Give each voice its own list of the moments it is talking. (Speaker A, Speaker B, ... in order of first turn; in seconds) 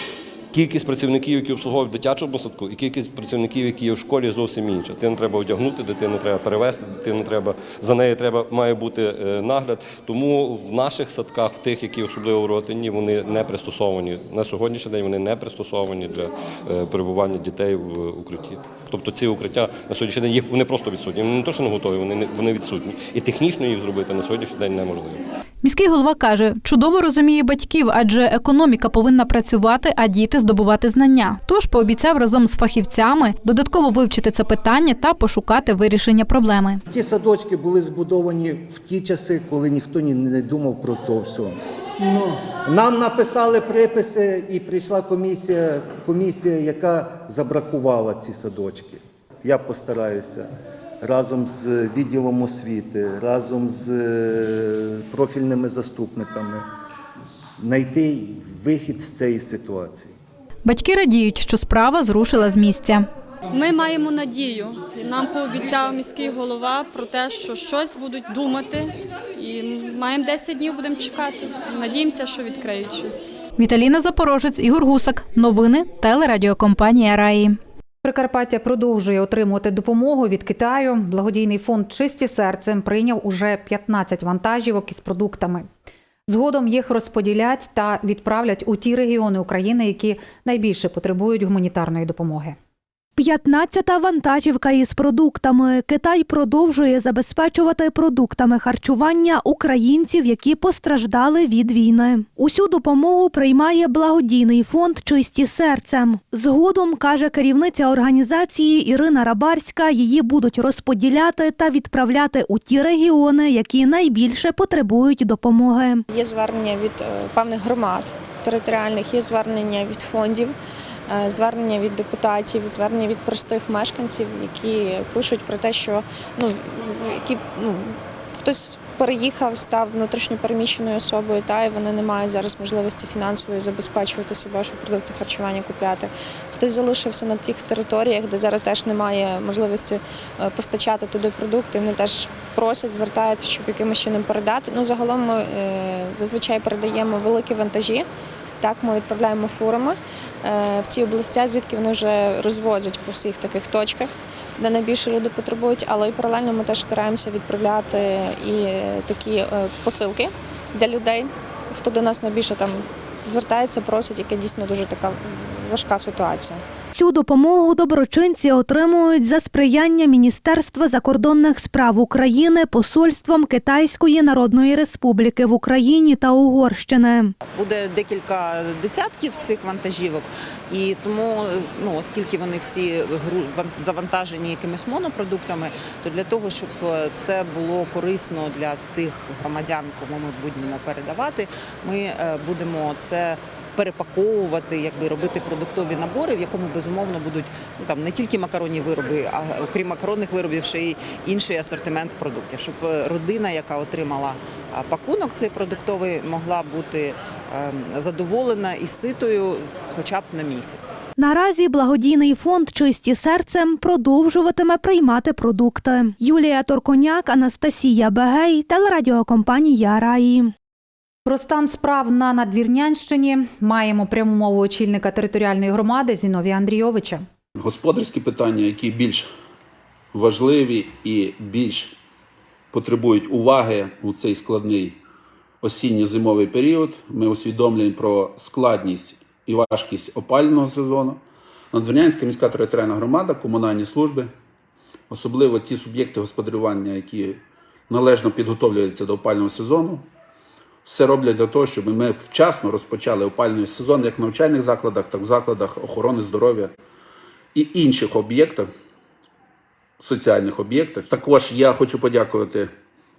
Speaker A: 0.5-25.2
Speaker B: 25.6-36.8, 60.6-63.1, 73.6-77.6
Speaker C: 36.9-50.5, 51.0-56.6, 57.6-60.1
Speaker D: 63.9-68.8, 69.7-73.1
Speaker E: 78.0-85.7, 86.3-92.6, 221.2-227.2
Speaker F: 93.2-116.0, 166.9-177.3, 211.2-220.5
Speaker G: 116.1-120.5, 121.1-148.1, 148.6-166.6
Speaker H: 177.5-210.9
Speaker I: 227.6-229.3, 230.1-231.9, 232.7-235.0, 235.6-241.2, 241.7-244.3, 245.1-250.1, 250.8-256.7, 257.5-258.7, 260.0-262.7